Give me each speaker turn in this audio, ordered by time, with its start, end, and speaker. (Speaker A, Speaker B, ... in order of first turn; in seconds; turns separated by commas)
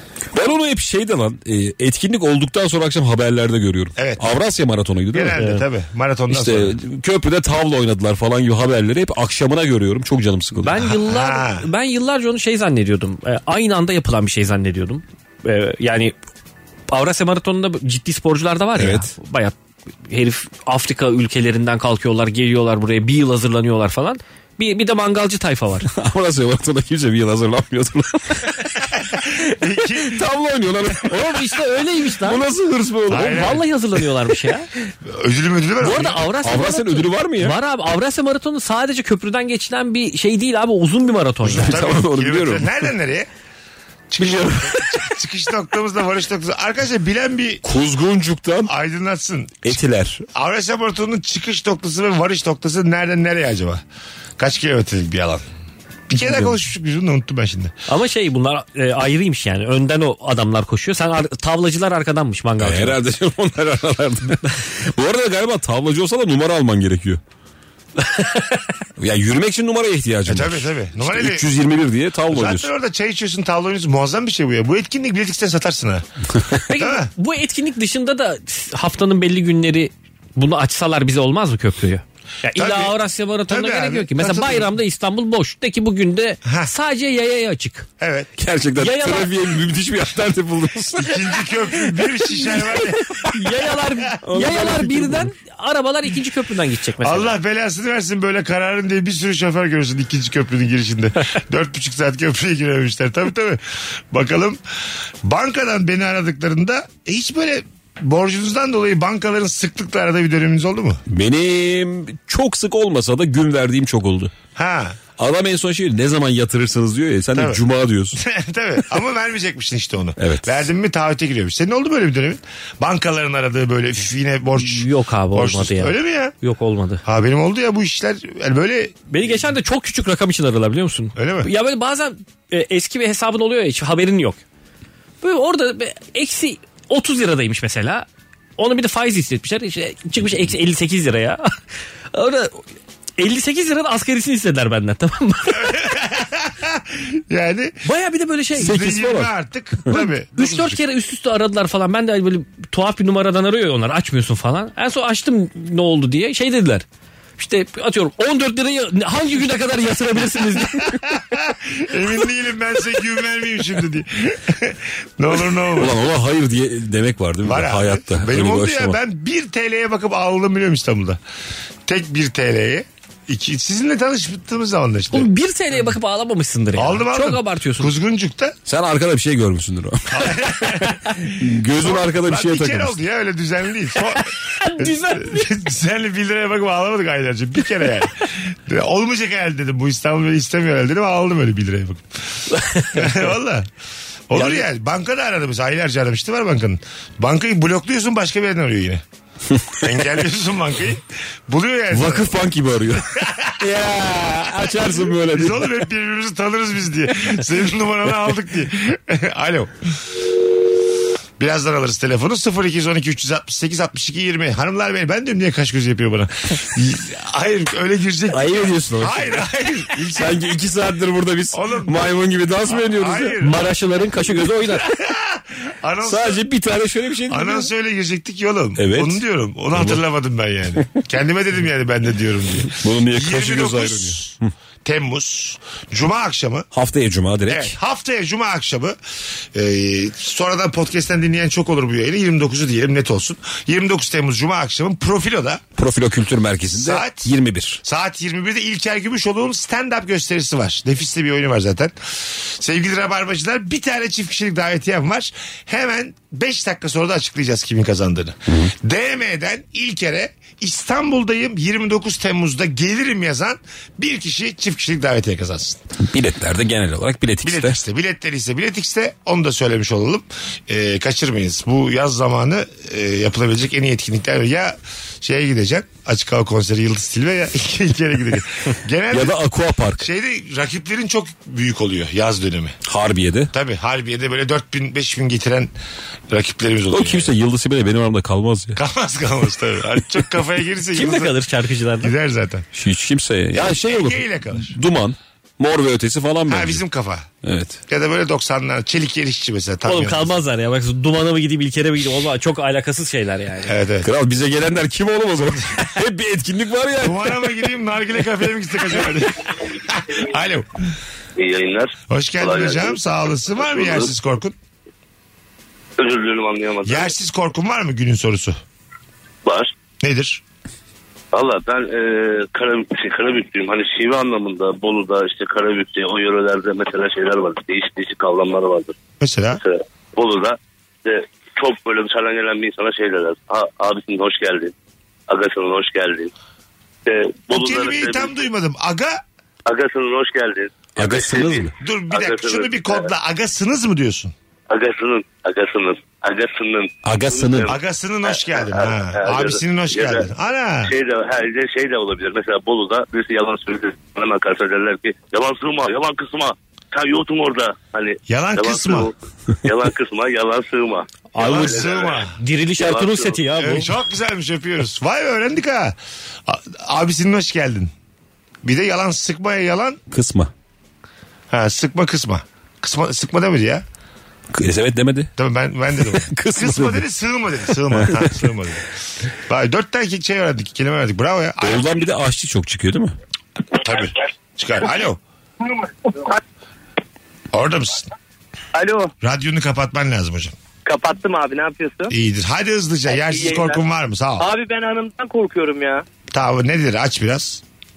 Speaker A: 0.3-5.4, Speaker B: 4.0-4.2, Speaker B: 5.1-6.8, Speaker C: 5.4-5.6, Speaker A: 6.3-10.8, Speaker C: 10.6-16.1, Speaker B: 10.7-11.7, Speaker C: 16.9-19.6, Speaker A: 18.8-19.1, Speaker C: 20.1-25.9, Speaker A: 25.9-33.6, Speaker B: 29.0-30.2, Speaker C: 31.0-32.4, Speaker B: 33.1-33.6, Speaker C: 33.1-34.7, Speaker B: 35.0-36.2, Speaker C: 35.8-41.8, Speaker A: 36.4-37.5, Speaker B: 41.4-43.3, Speaker A: 41.5-42.8, Speaker B: 44.1-47.6, Speaker A: 44.2-44.9, Speaker A: 47.6-48.7, Speaker B: 48.7-49.7, Speaker A: 49.6-50.2, Speaker B: 50.3-53.8, Speaker B: 54.4-55.5, Speaker B: 56.1-57.7, Speaker C: 57.9-63.0, Speaker A: 62.6-67.2, Speaker C: 68.0-68.6, Speaker A: 69.0-72.7, Speaker B: 70.3-71.5, Speaker B: 72.3-76.0, Speaker C: 76.7-87.9, Speaker B: 76.7-77.1, Speaker B: 82.5-83.0, Speaker B: 83.5-84.7, Speaker B: 86.5-86.7, Speaker B: 88.0-88.3, Speaker A: 88.4-91.3, Speaker C: 88.8-89.3, Speaker B: 91.0-93.3, Speaker C: 93.2-97.4, Speaker A: 94.2-95.3, Speaker B: 97.0-104.6, Speaker B: 105.2-111.0, Speaker A: 111.1-114.3, Speaker B: 114.5-115.0, Speaker A: 115.2-118.2, Speaker B: 117.3-117.6, Speaker B: 118.1-126.3, Speaker A: 120.2-120.6, Speaker C: 124.5-127.0, Speaker B: 127.0-129.0, Speaker C: 129.1-134.4, Speaker B: 131.2-131.5, Speaker C: 135.2-141.5, Speaker C: 142.1-142.6, Speaker C: 143.2-145.8, Speaker B: 145.5-147.8, Speaker C: 147.8-148.8, Speaker B: 148.6-150.8, Speaker A: 148.6-149.3, Speaker C: 149.9-156.8, Speaker C: 157.4-161.0, Speaker B: 161.1-165.9, Speaker A: 165.8-169.0, Speaker B: 167.4-171.2, Speaker B: 171.9-175.3, Speaker C: 175.1-177.9, Speaker B: 176.8-178.5, Speaker A: 178.7-183.0, Speaker B: 180.1-193.7, Speaker C: 184.1-185.5, Speaker C: 192.5-193.2, Speaker B: 194.3-199.0, Speaker B: 199.8-202.4, Speaker A: 201.9-205.7, Speaker B: 202.9-203.7, Speaker B: 204.5-210.0, Speaker B: 211.4-220.4, Speaker A: 218.3-219.4, Speaker A: 220.0-223.4, Speaker B: 221.5-223.7, Speaker C: 223.4-224.8, Speaker B: 224.7-226.4, Speaker A: 226.0-227.7, Speaker B: 227.3-236.7, Speaker A: 228.8-229.2, Speaker A: 229.7-230.0, Speaker A: 232.7-234.5, Speaker A: 236.7-237.7, Speaker B: 237.5-238.9, Speaker B: 239.5-245.6, Speaker A: 245.8-247.8, Speaker B: 246.7-265.8, Speaker A: 258.5-258.7, Speaker A: 266.0-267.8, Speaker B: 267.4-279.4, Speaker A: 279.1-280.1, Speaker B: 280.0-282.8, Speaker A: 282.8-283.5, Speaker B: 283.5-285.7, Speaker B: 286.3-287.3, Speaker A: 286.9-288.8, Speaker B: 288.8-291.4, Speaker C: 290.9-292.1, Speaker B: 292.0-292.7, Speaker A: 292.7-296.8, Speaker B: 293.6-294.8, Speaker B: 296.5-297.3, Speaker A: 297.4-297.8, Speaker B: 297.9-300.4, Speaker C: 299.8-303.7, Speaker B: 303.6-304.1, Speaker A: 304.0-307.4, Speaker B: 307.0-310.8, Speaker D: 311.4-313.0, Speaker B: 312.1-314.6, Speaker D: 313.6-314.1, Speaker D: 316.0-317.1, Speaker B: 316.8-318.6, Speaker D: 319.4-319.7, Speaker B: 320.0-320.4, Speaker D: 321.3-328.9, Speaker B: 329.2-329.6, Speaker D: 329.6-334.7, Speaker D: 335.3-336.3, Speaker D: 337.1-338.4, Speaker B: 337.5-339.2, Speaker D: 339.7-343.1, Speaker A: 341.0-341.7, Speaker B: 341.8-344.3, Speaker D: 344.7-347.7, Speaker A: 347.0-347.7, Speaker B: 347.6-350.9, Speaker D: 348.3-350.3, Speaker D: 350.8-359.1, Speaker B: 358.3-359.1, Speaker D: 359.6-363.4, Speaker C: 361.3-363.9, Speaker B: 361.4-362.4, Speaker B: 363.5-367.9, Speaker B: 368.6-370.0, Speaker A: 370.1-370.5, Speaker B: 371.5-373.8, Speaker A: 374.5-375.3, Speaker B: 375.4-378.8, Speaker A: 376.1-377.0, Speaker A: 377.9-378.4, Speaker B: 379.5-381.8, Speaker A: 381.6-383.1, Speaker B: 383.7-385.2, Speaker E: 385.6-386.4, Speaker B: 387.5-388.1, Speaker E: 388.7-389.1, Speaker B: 389.2-390.6, Speaker E: 390.9-392.1, Speaker B: 392.1-394.5, Speaker E: 393.1-393.8, Speaker E: 394.4-396.1, Speaker B: 396.3-397.6